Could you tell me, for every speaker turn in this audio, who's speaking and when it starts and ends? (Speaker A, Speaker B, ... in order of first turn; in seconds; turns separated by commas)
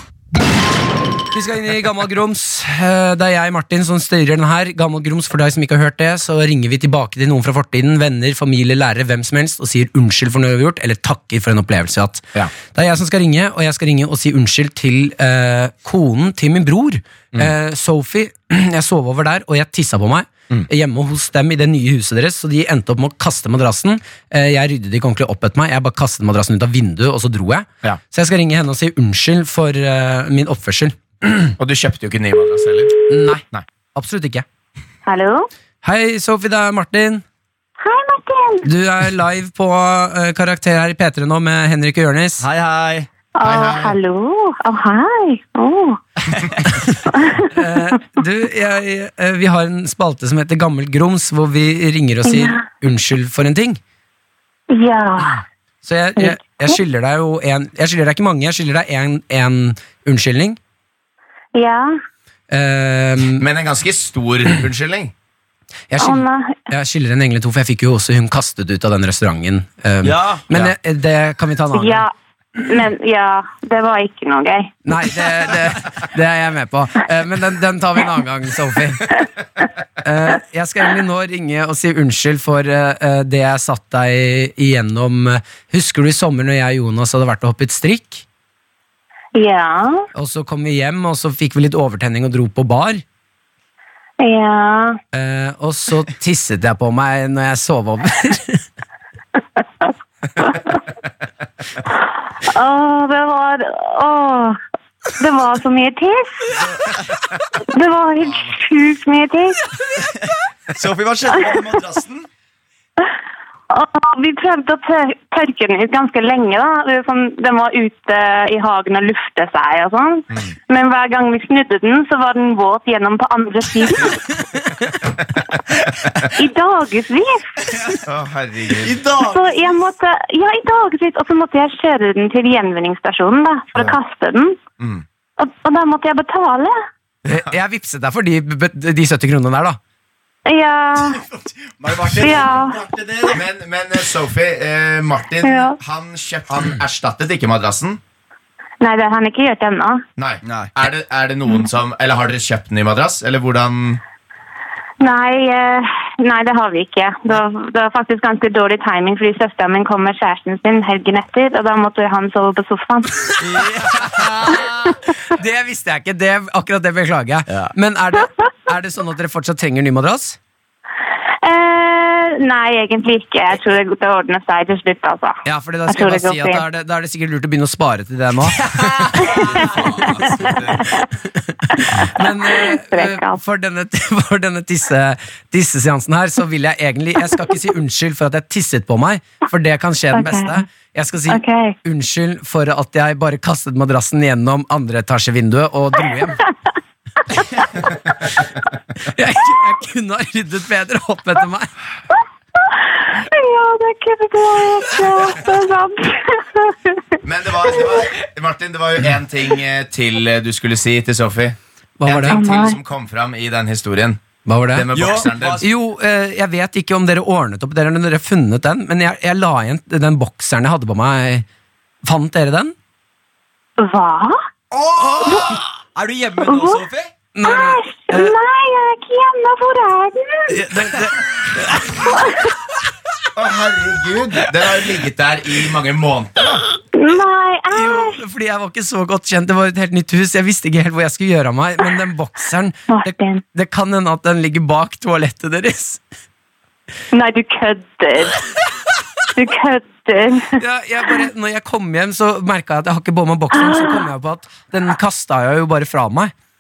Speaker A: 1.3-31.5, Speaker B: 31.6-32.9, Speaker A: 33.1-33.4, Speaker A: 34.0-34.5, Speaker C: 35.1-35.5, Speaker A: 35.8-37.2, Speaker C: 37.8-38.7, Speaker A: 38.6-42.4, Speaker D: 42.4-43.1, Speaker C: 43.4-46.0, Speaker B: 43.4-44.0, Speaker A: 46.7-53.8, Speaker C: 47.1-48.0, Speaker C: 52.2-52.6, Speaker C: 54.7-55.4, Speaker A: 55.8-60.6, Speaker C: 56.2-56.8, Speaker C: 61.5-62.0, Speaker A: 62.5-63.5, Speaker B: 63.4-65.1, Speaker A: 65.9-72.1, Speaker C: 66.0-66.6, Speaker D: 70.0-70.4, Speaker C: 71.7-74.7, Speaker A: 74.9-79.2, Speaker A: 80.0-88.2, Speaker C: 89.3-90.0, Speaker A: 90.2-93.0, Speaker C: 94.2-95.0, Speaker A: 95.1-98.6, Speaker C: 101.9-104.6, Speaker C: 105.2-106.7, Speaker C: 107.6-109.7, Speaker D: 110.0-112.3, Speaker C: 113.7-124.4, Speaker C: 126.3-127.4, Speaker B: 128.0-129.0, Speaker D: 128.8-129.7, Speaker C: 129.2-134.6, Speaker B: 134.8-135.1, Speaker C: 135.4-136.8, Speaker A: 137.3-139.8, Speaker C: 140.5-141.2, Speaker D: 141.1-143.4, Speaker C: 142.1-142.8, Speaker B: 143.3-148.0, Speaker C: 145.4-145.8, Speaker C: 148.8-150.0, Speaker B: 150.2-154.0, Speaker D: 150.4-150.7, Speaker C: 155.0-163.5, Speaker D: 163.4-164.6, Speaker A: 163.5-170.4, Speaker C: 171.4-176.6, Speaker A: 175.4-180.6, Speaker D: 179.1-179.6, Speaker C: 179.2-181.1, Speaker B: 179.2-181.0, Speaker A: 181.3-196.4, Speaker C: 181.8-183.4, Speaker C: 190.1-190.6, Speaker C: 191.3-191.8, Speaker C: 197.3-197.7, Speaker A: 199.0-201.7, Speaker C: 202.6-207.2, Speaker B: 207.2-215.7, Speaker C: 207.8-208.1, Speaker A: 212.0-212.4, Speaker C: 212.3-212.8, Speaker A: 214.5-221.5, Speaker D: 214.9-215.6, Speaker A: 222.1-222.8, Speaker C: 223.8-224.4, Speaker D: 224.7-227.1, Speaker A: 225.0-225.6, Speaker C: 225.2-225.6, Speaker C: 226.4-226.8, Speaker A: 227.3-228.3, Speaker C: 227.4-230.7, Speaker A: 230.5-232.4, Speaker C: 232.1-232.5, Speaker B: 233.3-236.6, Speaker C: 236.9-238.2, Speaker A: 237.7-246.0, Speaker C: 242.9-243.4, Speaker C: 247.1-248.4, Speaker C: 249.3-250.6, Speaker A: 250.6-256.3, Speaker C: 253.5-254.1